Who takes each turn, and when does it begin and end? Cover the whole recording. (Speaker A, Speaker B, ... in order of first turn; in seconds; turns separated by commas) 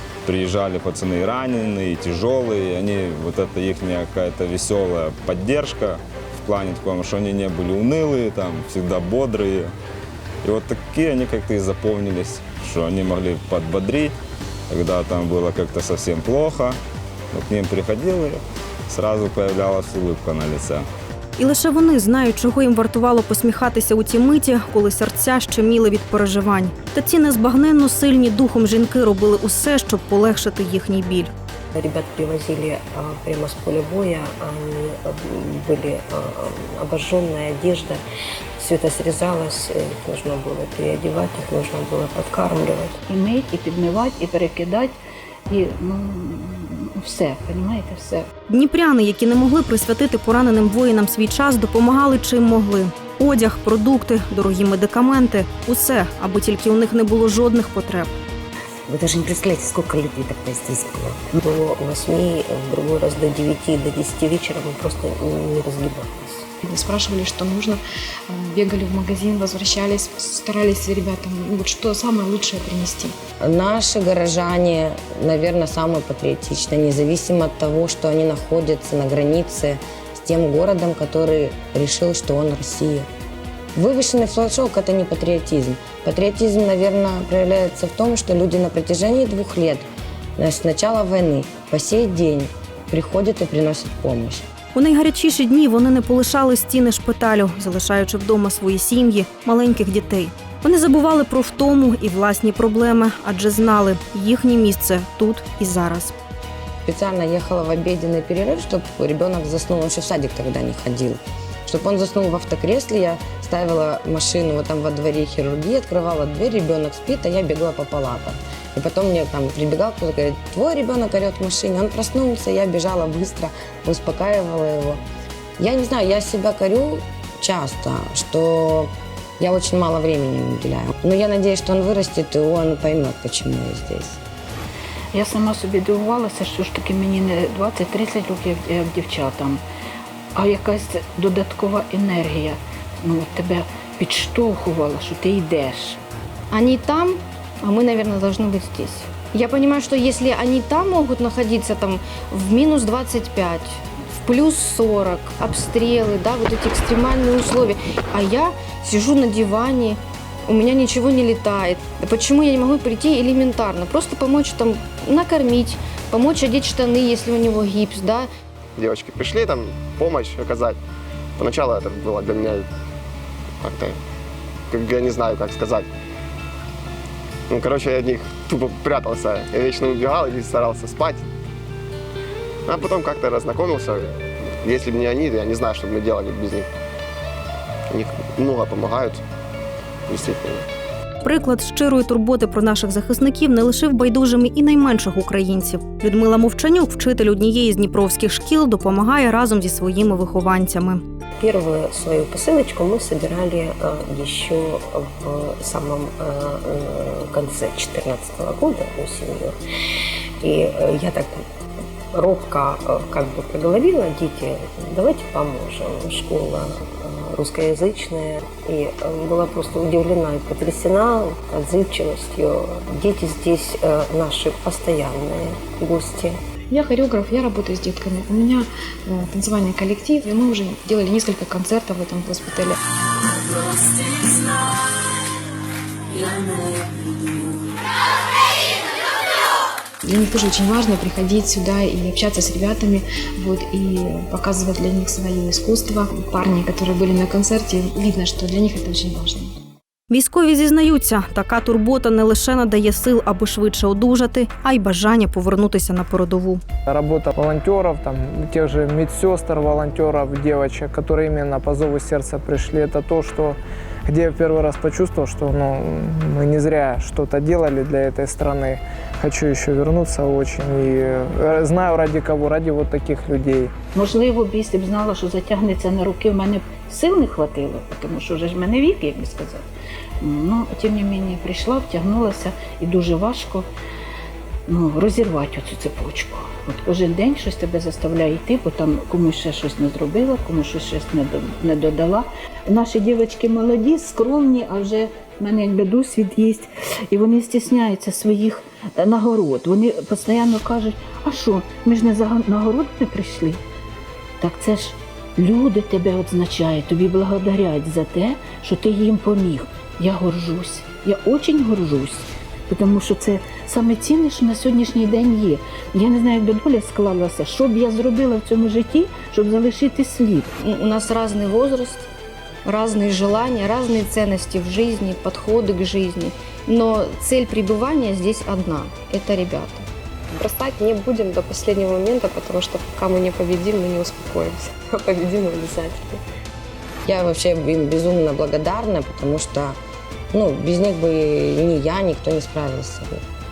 Speaker A: 0.2-9.7, Speaker A: 10.4-14.2, Speaker A: 14.7-16.8, Speaker A: 17.3-20.9, Speaker B: 21.4-31.3, Speaker C: 31.8-38.0, Speaker C: 38.6-43.0, Speaker D: 43.1-45.0, Speaker D: 45.5-48.2, Speaker B: 48.5-58.1, Speaker E: 58.9-61.4, Speaker C: 61.4-66.5, Speaker F: 66.6-73.2, Speaker G: 73.4-83.1, Speaker G: 83.8-89.8, Speaker G: 90.4-94.5, Speaker B: 94.8-106.1, Speaker G: 106.9-125.0, Speaker G: 125.6-134.2, Speaker D: 135.1-139.6, Speaker D: 140.3-146.0, Speaker H: 146.5-168.3, Speaker I: 168.8-170.8, Speaker I: 171.4-172.7, Speaker I: 173.6-174.0, Speaker I: 174.7-175.9, Speaker I: 177.5-181.3, Speaker I: 182.7-186.7, Speaker I: 187.9-189.2, Speaker I: 190.1-190.7, Speaker B: 191.2-201.0, Speaker C: 201.4-209.6, Speaker C: 210.4-211.4, Speaker C: 212.1-226.4, Speaker F: 226.7-232.8, Speaker F: 233.9-234.6, Speaker F: 236.2-237.2, Speaker F: 240.0-249.5, Speaker B: 250.1-256.6, Speaker J: 256.9-263.6, Speaker J: 264.1-273.7, Speaker D: 273.9-279.6, Speaker D: 280.2-283.7, Speaker D: 284.7-303.6, Speaker D: 304.4-320.5, Speaker H: 320.6-322.1, Speaker H: 322.6-329.9, Speaker K: 330.3-336.2, Speaker G: 337.1-339.8, Speaker G: 340.3-343.2